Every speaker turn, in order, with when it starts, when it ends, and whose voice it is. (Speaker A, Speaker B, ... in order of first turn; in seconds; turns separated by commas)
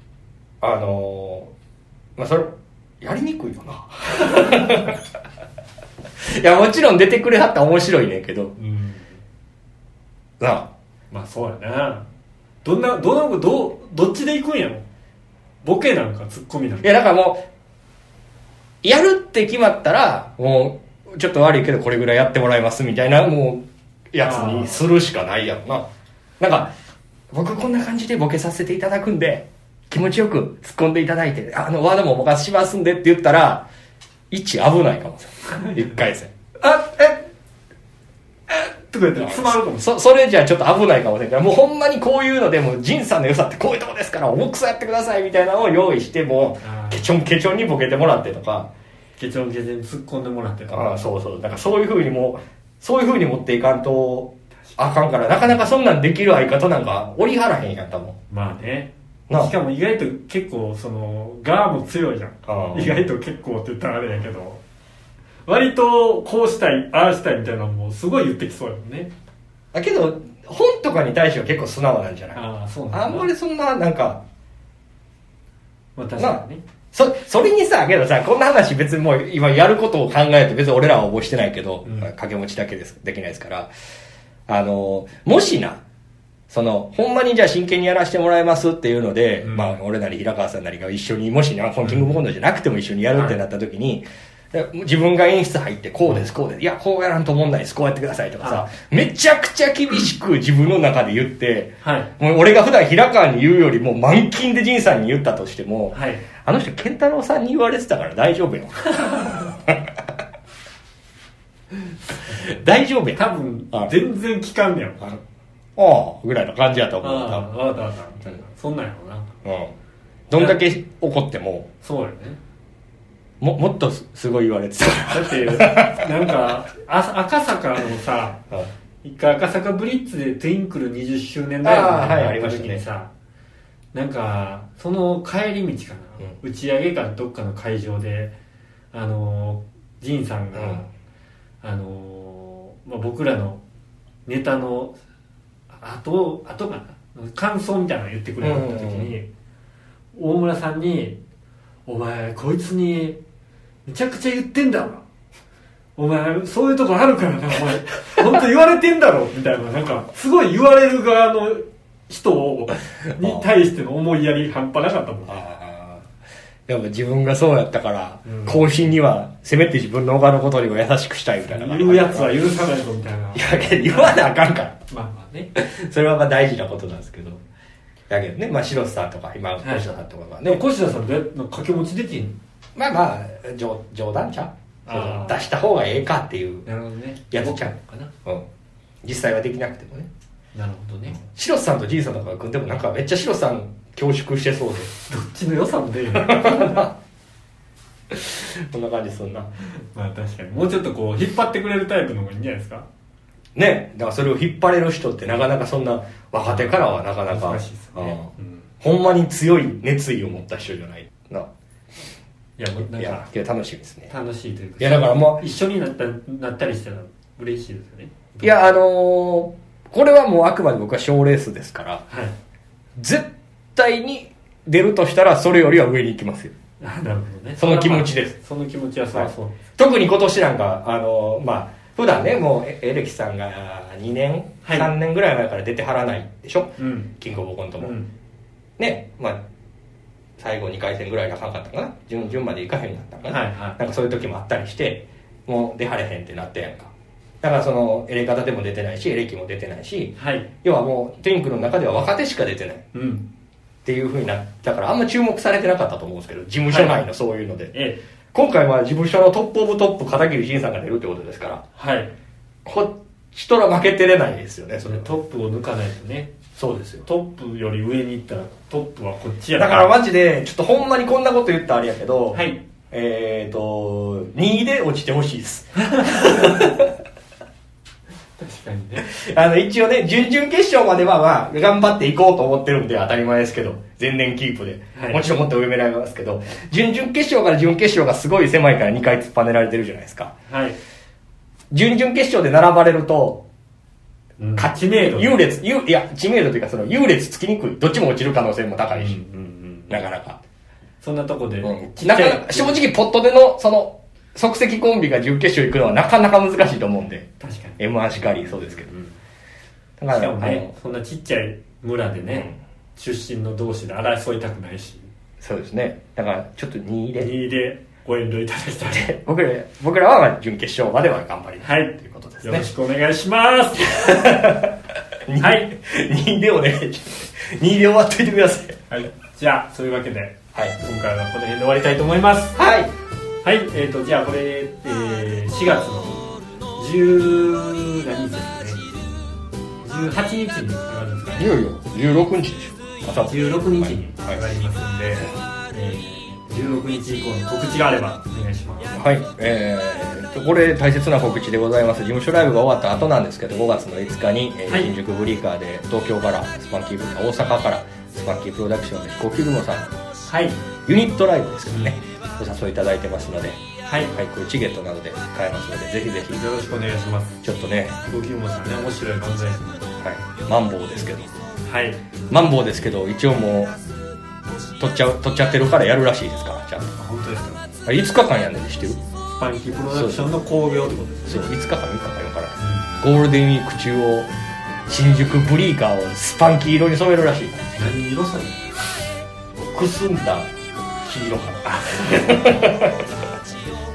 Speaker A: 0.6-1.5, Speaker A: 2.1-5.0, Speaker A: 6.2-8.5, Speaker B: 8.6-9.1, Speaker A: 10.4-10.7, Speaker B: 11.1-12.1, Speaker B: 12.6-14.8, Speaker B: 15.6-16.9, Speaker A: 16.8-17.4, Speaker A: 18.8-25.9, Speaker B: 24.2-24.9, Speaker A: 26.4-26.7, Speaker A: 27.3-33.7, Speaker A: 34.3-36.3, Speaker B: 35.5-36.0, Speaker B: 36.6-37.2, Speaker B: 38.5-39.9, Speaker A: 39.2-48.7, Speaker B: 46.6-47.0, Speaker B: 49.2-51.0, Speaker A: 50.7-58.2, Speaker B: 54.7-54.9, Speaker B: 58.3-64.6, Speaker A: 62.5-63.0, Speaker B: 65.5-69.1, Speaker A: 69.7-74.2, Speaker B: 72.3-73.3, Speaker B: 76.0-76.6, Speaker A: 76.9-83.7, Speaker B: 81.8-82.1, Speaker A: 84.5-85.8, Speaker A: 86.5-109.9, Speaker B: 89.4-89.7, Speaker B: 91.8-92.1, Speaker B: 101.8-102.1, Speaker B: 105.9-106.3, Speaker B: 109.0-109.4, Speaker A: 112.3-113.2, Speaker B: 113.1-115.2, Speaker A: 115.8-117.5, Speaker B: 117.0-119.3, Speaker A: 119.4-119.7, Speaker A: 120.3-121.7, Speaker B: 120.3-120.6, Speaker B: 121.8-122.4, Speaker A: 123.4-126.3, Speaker B: 125.1-128.4, Speaker B: 129.0-133.1, Speaker A: 131.6-132.8, Speaker B: 133.9-138.3, Speaker B: 138.9-140.9, Speaker A: 140.5-140.8, Speaker B: 141.6-143.6, Speaker B: 144.2-144.9, Speaker B: 145.7-149.3, Speaker A: 148.4-149.1, Speaker B: 150.1-151.2, Speaker B: 151.8-153.2, Speaker B: 153.8-155.0, Speaker B: 156.0-165.3, Speaker A: 163.2-163.5, Speaker A: 165.2-166.1, Speaker A: 166.7-172.3, Speaker B: 168.2-168.9, Speaker B: 171.4-174.2, Speaker A: 173.3-174.8, Speaker B: 174.9-175.5, Speaker A: 175.5-177.4, Speaker A: 178.1-180.6, Speaker B: 179.6-179.9, Speaker B: 180.4-182.4, Speaker A: 182.8-186.7, Speaker B: 184.9-185.4, Speaker B: 186.7-188.1, Speaker A: 187.3-188.4, Speaker A: 189.0-190.1, Speaker B: 190.5-191.2, Speaker A: 191.1-194.9, Speaker B: 195.0-196.9, Speaker A: 196.1-196.9, Speaker A: 198.1-199.5, Speaker B: 199.6-202.9, Speaker A: 203.5-208.3, Speaker B: 206.4-208.7, Speaker A: 208.8-211.5, Speaker B: 212.6-213.2, Speaker A: 212.9-214.1, Speaker B: 214.1-218.5, Speaker A: 214.8-215.4, Speaker A: 218.4-222.0, Speaker B: 222.1-222.3, Speaker A: 223.0-226.5, Speaker B: 226.8-229.6, Speaker A: 227.6-228.3, Speaker A: 229.1-237.9, Speaker B: 234.6-234.9, Speaker B: 236.8-237.1, Speaker B: 237.8-238.1, Speaker A: 238.8-239.4, Speaker A: 240.4-246.9, Speaker B: 243.3-243.8, Speaker A: 247.4-252.9, Speaker B: 250.2-250.5, Speaker B: 252.9-253.3, Speaker A: 253.8-257.7, Speaker B: 256.7-257.0, Speaker B: 257.7-258.0, Speaker A: 258.3-261.6, Speaker B: 261.8-262.1, Speaker A: 262.6-265.1, Speaker B: 264.8-266.3, Speaker A: 266.6-267.1, Speaker B: 267.0-269.9, Speaker A: 269.6-276.9, Speaker B: 272.3-272.6, Speaker B: 275.8-276.7, Speaker B: 278.4-279.1, Speaker A: 279.0-290.3, Speaker B: 284.9-285.2, Speaker B: 290.5-290.8, Speaker A: 291.7-293.4, Speaker B: 294.4-295.4, Speaker A: 294.6-299.1, Speaker B: 298.9-300.0, Speaker A: 299.9-300.4, Speaker B: 301.0-302.8, Speaker A: 301.6-308.9, Speaker B: 307.4-309.1, Speaker A: 310.0-310.7, Speaker B: 310.1-315.1, Speaker A: 312.3-312.6, Speaker A: 315.4-317.3, Speaker B: 317.2-319.1, Speaker A: 318.9-322.7, Speaker B: 321.6-324.4, Speaker A: 323.9-328.8, Speaker B: 325.4-325.7, Speaker B: 328.9-332.6, Speaker A: 332.6-332.9, Speaker B: 333.4-338.9, Speaker B: 339.8-341.6, Speaker A: 341.4-344.4, Speaker B: 343.3-348.9, Speaker A: 348.9-359.9, Speaker B: 354.7-354.9, Speaker B: 360.3-360.6, Speaker A: 360.8-366.4, Speaker B: 363.8-364.2, Speaker B: 366.3-367.4, Speaker A: 367.4-368.0, Speaker B: 368.0-369.9, Speaker A: 370.0-371.3, Speaker B: 371.6-372.0, Speaker A: 372.3-373.7, Speaker A: 374.8-376.9, Speaker B: 376.9-377.7, Speaker A: 377.8-379.0, Speaker B: 379.4-381.4, Speaker A: 379.9-380.3, Speaker A: 381.2-384.3, Speaker B: 382.6-383.0, Speaker A: 384.9-387.7, Speaker B: 387.8-388.7, Speaker A: 389.6-390.5, Speaker A: 391.0-393.0, Speaker B: 391.7-392.3